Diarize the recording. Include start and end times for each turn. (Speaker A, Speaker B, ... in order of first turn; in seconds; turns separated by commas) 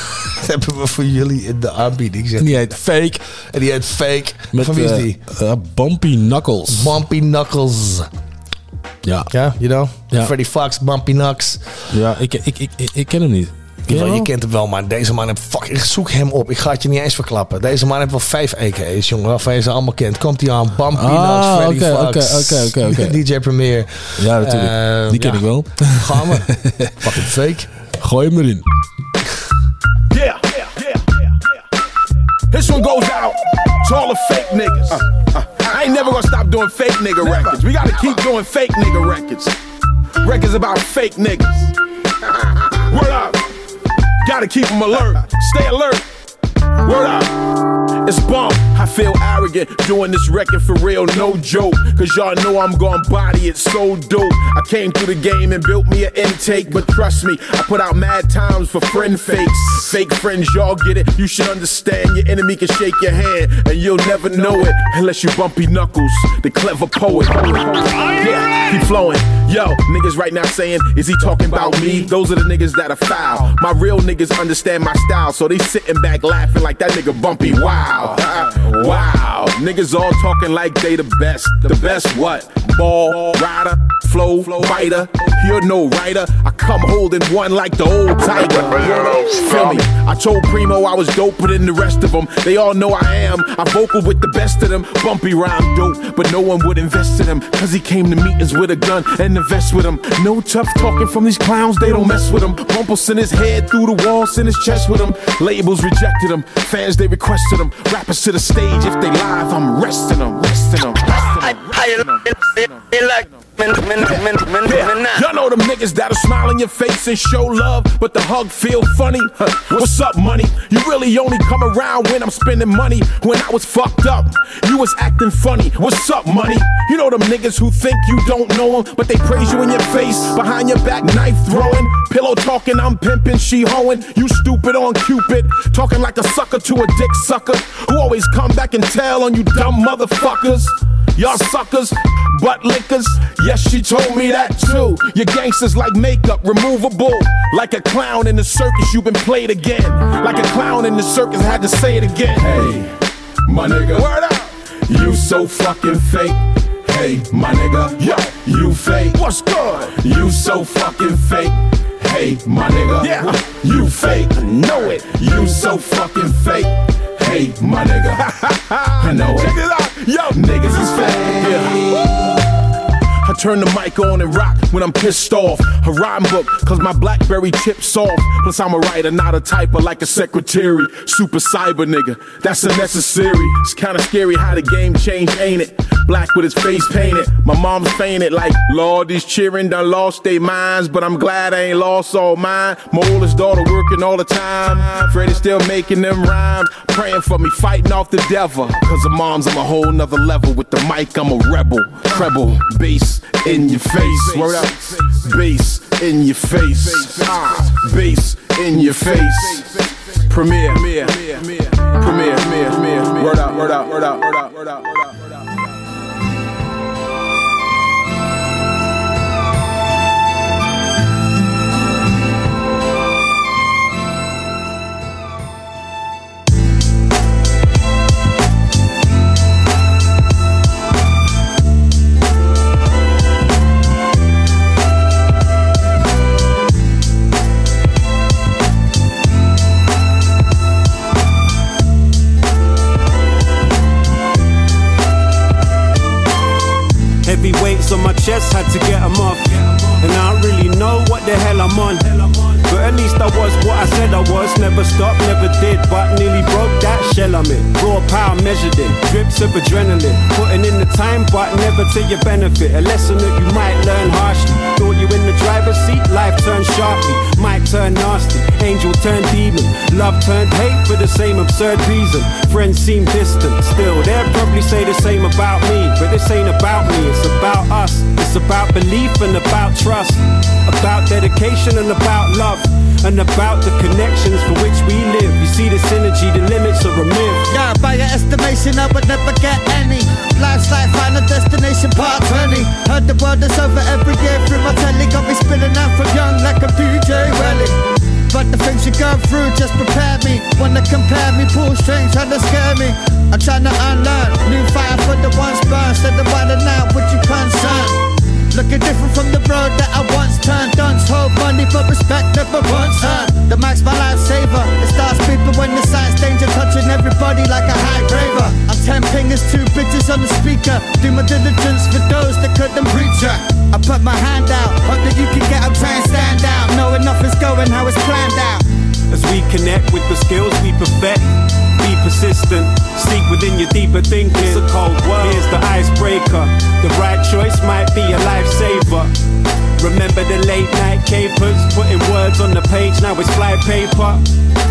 Speaker A: 0.4-2.8, Speaker B: 2.4-3.2, Speaker A: 3.5-5.2, Speaker B: 4.5-6.9, Speaker A: 6.7-8.1, Speaker B: 9.1-9.3, Speaker A: 9.3-11.6, Speaker B: 11.9-14.3, Speaker A: 13.9-26.5, Speaker B: 21.0-23.2, Speaker B: 24.2-27.1, Speaker A: 27.0-27.7, Speaker B: 28.0-28.6, Speaker C: 30.1-31.0, Speaker C: 32.5-39.5, Speaker C: 40.2-41.7, Speaker C: 42.9-43.4, Speaker C: 44.2-46.0, Speaker C: 46.9-47.3, Speaker C: 48.1-111.0, Speaker C: 114.7-152.9, Speaker C: 153.5-154.4, Speaker C: 154.9-156.3, Speaker C: 156.9-166.7, Speaker C: 167.2-168.2, Speaker C: 169.0-171.8, Speaker C: 173.3-215.2, Speaker D: 247.2-287.5, Speaker E: 287.5-328.6, Speaker D: 329.1-339.1, Speaker D: 339.8-344.2